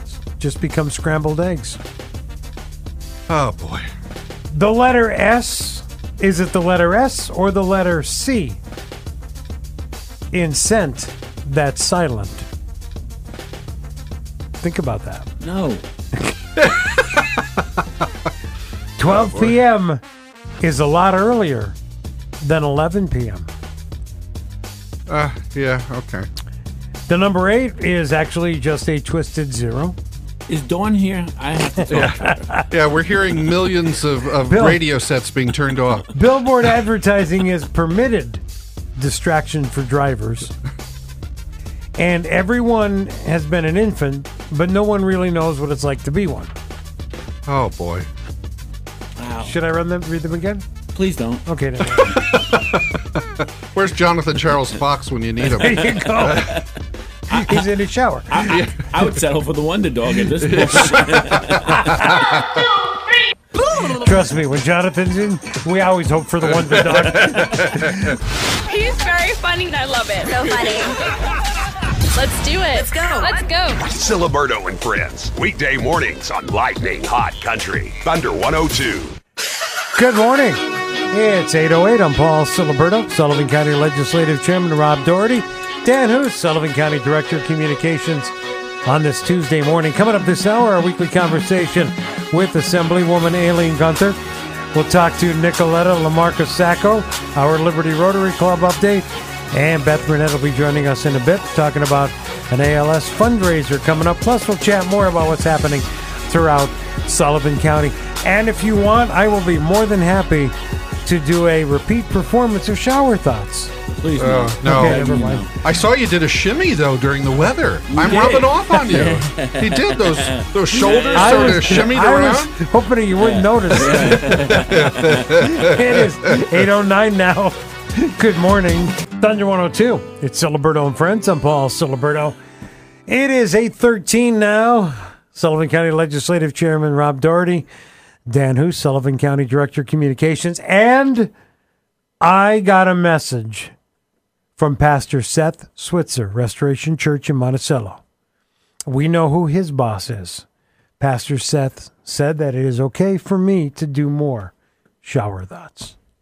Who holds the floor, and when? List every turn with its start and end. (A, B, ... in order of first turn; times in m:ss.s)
0:00.4-0:01.8 A
0:03.3-0:03.9 B
0:04.5-0:08.6 A
0:10.3-0:12.4 A
0:14.6-0:15.3 A
0:15.4-0:15.8 C
0:16.6-0:18.1 B
0:19.0-0:20.0 A
0:19.0-0:19.6 B
0:20.6-0:21.8 A
0:22.4-0:23.5 A
0:25.1-0:26.3 B
0:27.1-0:30.0 A
0:30.5-0:32.4 C
0:31.9-0:36.1 B
0:32.3-0:32.6 A
0:34.5-0:34.8 A
0:36.1-0:38.4 A
0:39.0-0:40.5 A
0:42.0-0:46.5 A
0:47.4-0:48.1 B
0:49.2-0:49.5 C
0:49.4-0:50.6 A
0:50.9-0:51.4 C
0:51.4-0:52.2 A
0:51.9-0:56.6 B
0:55.6-0:56.5 A
0:56.2-0:56.6 C
0:57.3-0:57.7 C
0:57.4-0:58.4 A
0:58.3-1:02.2 C
0:58.4-0:59.0 B
1:00.4-1:02.6 B
1:04.0-1:08.2 A
1:06.8-1:08.1 B
1:08.7-1:10.9 D
1:12.1-1:13.8 D
1:13.9-1:19.2 E
1:20.0-1:28.3 A
1:28.8-1:34.2 A
1:34.7-1:50.5 A
1:51.0-1:53.7 A
1:53.9-1:55.5 C
1:54.2-2:02.6 B
1:54.6-1:55.4 A
1:57.9-2:01.9 C
2:01.1-2:04.4 A
2:03.2-2:05.4 C
2:03.9-2:05.6 B
2:05.4-2:12.4 A
2:13.1-2:17.6 A
2:18.3-2:21.3 A
2:22.2-2:23.7 A
2:24.6-2:28.0 A
2:28.9-2:30.4 A
2:31.0-2:35.9 A